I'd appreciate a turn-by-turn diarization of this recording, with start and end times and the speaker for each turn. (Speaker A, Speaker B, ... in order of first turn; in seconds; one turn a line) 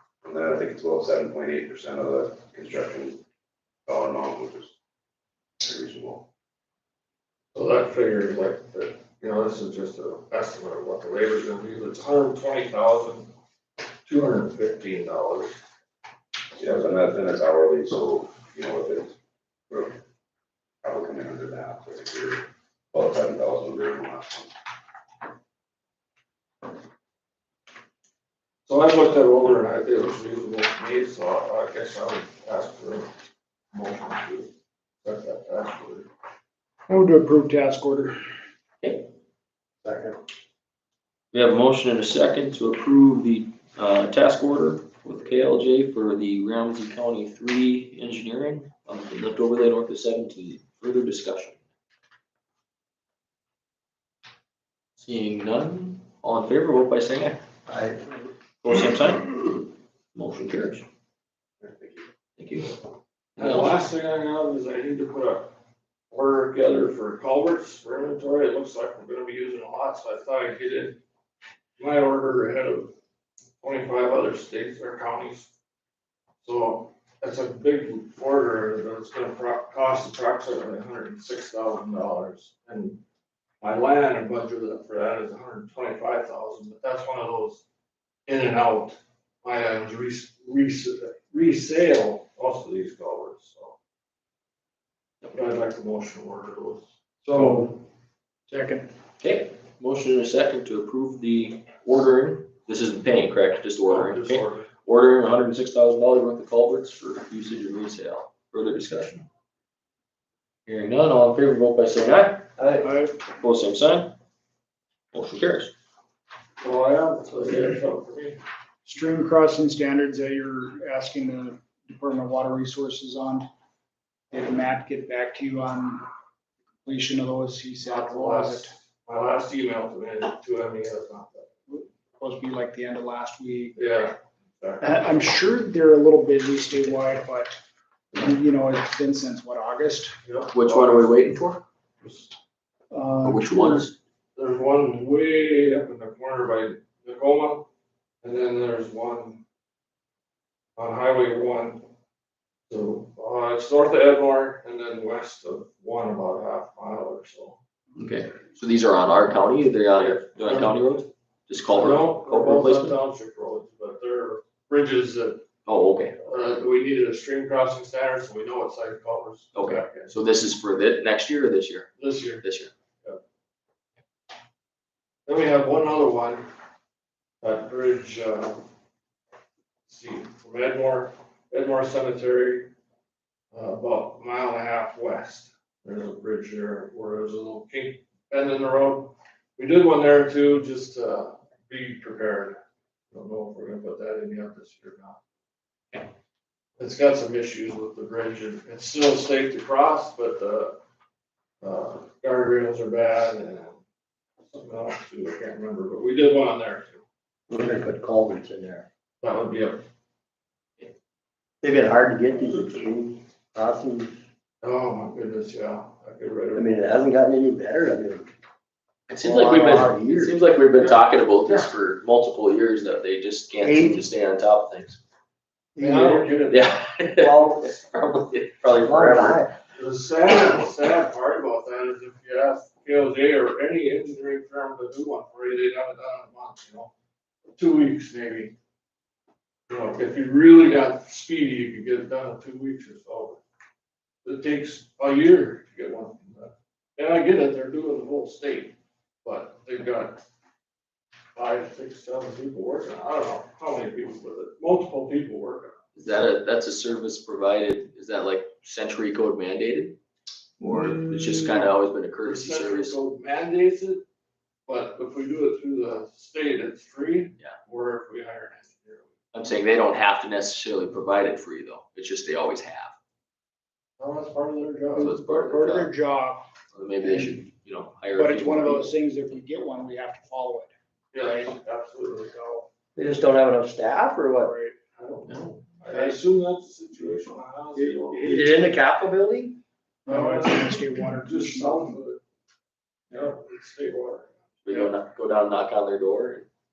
Speaker A: 0.2-3.2
Speaker A: 3.9-4.7
Speaker A: 5.6-6.3
Speaker B: 7.5-13.3
Speaker B: 14.1-15.6
Speaker A: 16.6-19.2
Speaker A: 19.7-20.0
Speaker A: 20.8-24.5
Speaker B: 28.7-33.1
Speaker B: 33.7-34.5
Speaker B: 35.0-36.1
Speaker C: 36.9-38.1
Speaker D: 39.8-40.2
Speaker E: 41.3-51.6
Speaker E: 55.0-57.4
Speaker D: 57.7-58.2
Speaker E: 58.6-60.9
Speaker A: 61.6-62.0
Speaker E: 62.4-62.8
Speaker B: 63.4-65.5
Speaker E: 63.4-63.7
Speaker B: 66.1-71.0
Speaker B: 71.8-72.9
Speaker B: 73.6-75.5
Speaker B: 76.4-83.0
Speaker B: 83.6-87.6
Speaker B: 88.3-93.8
Speaker B: 95.3-97.6
Speaker C: 97.3-97.8
Speaker C: 98.5-98.9
Speaker E: 99.2-109.3
Speaker B: 103.9-104.7
Speaker E: 110.7-112.5
Speaker D: 112.6-112.9
Speaker C: 112.8-113.2
Speaker E: 113.3-114.2
Speaker E: 115.1-115.7
Speaker B: 116.6-118.4
Speaker C: 118.8-123.5
Speaker C: 124.3-126.0
Speaker C: 126.8-128.7
Speaker B: 127.9-131.6
Speaker C: 131.7-133.8
Speaker B: 133.8-134.8
Speaker C: 134.8-137.5
Speaker C: 138.1-140.1
Speaker B: 140.2-141.4
Speaker E: 140.5-141.6
Speaker B: 142.0-142.3
Speaker C: 142.9-143.9
Speaker E: 143.2-143.9
Speaker B: 144.4-147.7
Speaker B: 148.2-149.4
Speaker B: 150.8-151.9
Speaker B: 152.7-157.6
Speaker E: 158.0-163.0
Speaker B: 160.0-160.9
Speaker B: 161.7-165.5
Speaker E: 165.7-166.2
Speaker B: 166.2-170.1
Speaker E: 169.5-171.9
Speaker B: 172.0-172.5
Speaker E: 172.4-172.7
Speaker B: 175.3-176.5
Speaker B: 177.4-178.6
Speaker B: 179.9-182.7
Speaker B: 183.5-195.2
Speaker B: 196.8-200.8
Speaker B: 201.6-203.8
Speaker B: 204.5-207.0
Speaker D: 207.5-208.9
Speaker B: 209.2-209.9
Speaker D: 211.6-214.1
Speaker B: 214.6-217.0
Speaker D: 216.5-218.3
Speaker E: 219.1-225.0
Speaker D: 219.2-220.4
Speaker D: 223.6-224.1
Speaker D: 225.8-226.4
Speaker B: 225.8-226.7
Speaker E: 226.5-229.5
Speaker D: 227.2-227.6
Speaker D: 228.8-229.5
Speaker B: 229.7-236.9
Speaker B: 237.6-238.6
Speaker B: 239.7-243.4
Speaker B: 244.2-250.2
Speaker B: 251.3-255.8
Speaker E: 255.9-260.0
Speaker E: 260.6-263.0
Speaker B: 262.2-264.1
Speaker B: 264.7-269.1
Speaker E: 269.3-272.9
Speaker B: 274.0-275.1
Speaker E: 275.0-275.9
Speaker C: 275.0-276.5
Speaker E: 276.7-278.9
Speaker C: 277.0-277.4
Speaker C: 278.1-281.6
Speaker B: 281.1-282.6
Speaker D: 283.0-284.5
Speaker C: 284.4-284.8
Speaker B: 285.0-288.7
Speaker E: 285.3-285.6
Speaker D: 288.1-289.6
Speaker C: 290.1-292.0
Speaker B: 290.1-292.2
Speaker B: 293.1-294.9
Speaker E: 294.6-296.5